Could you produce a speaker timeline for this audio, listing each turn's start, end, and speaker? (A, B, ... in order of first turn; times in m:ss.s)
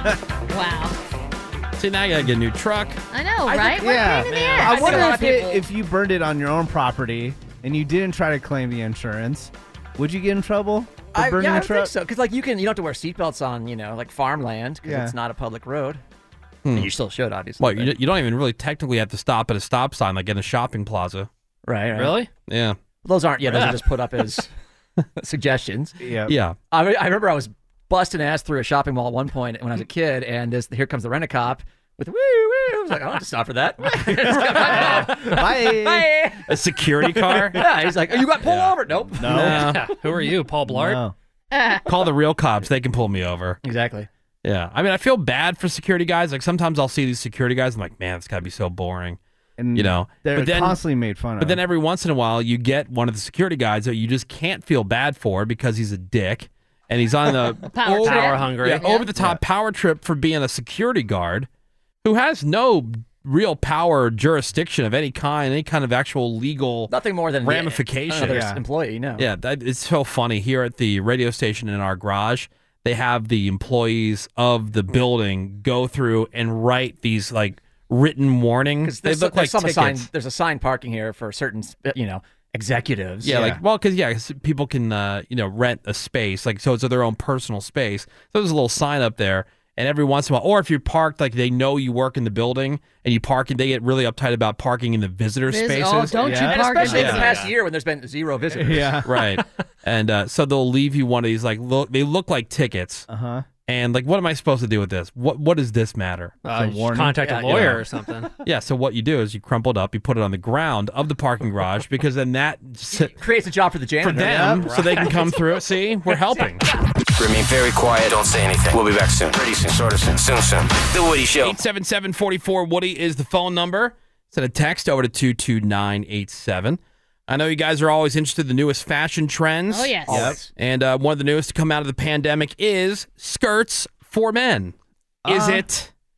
0:00.5-0:01.0 A
0:01.8-0:03.0 B
0:03.1-0:05.2 A
0:03.5-0:05.6 C
0:03.8-0:11.9 D
0:11.1-0:16.0 C
0:14.8-0:15.1 D
0:16.6-0:16.9 B
0:16.7-0:17.9 C
0:17.6-0:21.3 B
0:21.7-0:22.2 C
0:21.9-0:22.3 E
0:22.5-0:22.8 B
0:23.0-0:24.5 C
0:23.5-0:23.8 E
0:25.2-0:26.0 C
0:26.0-0:26.3 D
0:26.3-0:26.6 B
0:26.7-0:36.5 C
0:33.9-0:36.1 D
0:36.5-0:37.7 B
0:37.2-0:37.6 D
0:37.5-0:39.7 C
0:38.4-0:39.9 B
0:39.2-0:39.7 D
0:39.6-0:41.0 E
0:40.7-0:41.1 D
0:41.5-0:41.8 A
0:41.8-0:43.6 B
0:43.6-0:44.1 C
0:44.4-0:49.2 B
0:49.6-0:51.6 D
0:49.7-0:50.8 B
0:51.4-1:01.5 B
0:57.7-0:59.0 A
0:57.9-0:58.9 E
1:02.0-1:08.5 B
1:06.9-1:09.3 C
1:08.3-1:08.6 D
1:09.2-1:20.1 B
1:18.8-1:23.5 C
1:23.2-1:36.2 B
1:23.3-1:23.6 D
1:35.5-1:37.4 A
1:36.2-1:36.8 D
1:36.2-1:39.0 C
1:36.8-1:37.3 B
1:36.9-1:37.5 E
1:38.5-1:39.1 D
1:39.0-1:43.1 B
1:43.1-1:43.5 D
1:43.7-1:46.4 B
1:46.4-1:48.3 E
1:46.5-1:47.2 D
1:47.2-1:47.8 C
1:47.5-1:47.8 B
1:48.4-1:53.2 B
1:52.9-1:54.5 C
1:54.0-1:56.6 B
1:54.2-1:54.7 D
1:54.7-1:55.4 E
1:56.3-1:56.6 E
1:57.2-2:01.6 F
2:01.4-2:14.8 B
2:09.7-2:10.4 A
2:10.1-2:10.4 D
2:10.1-2:10.5 C
2:15.2-2:15.6 D
2:15.3-2:15.9 B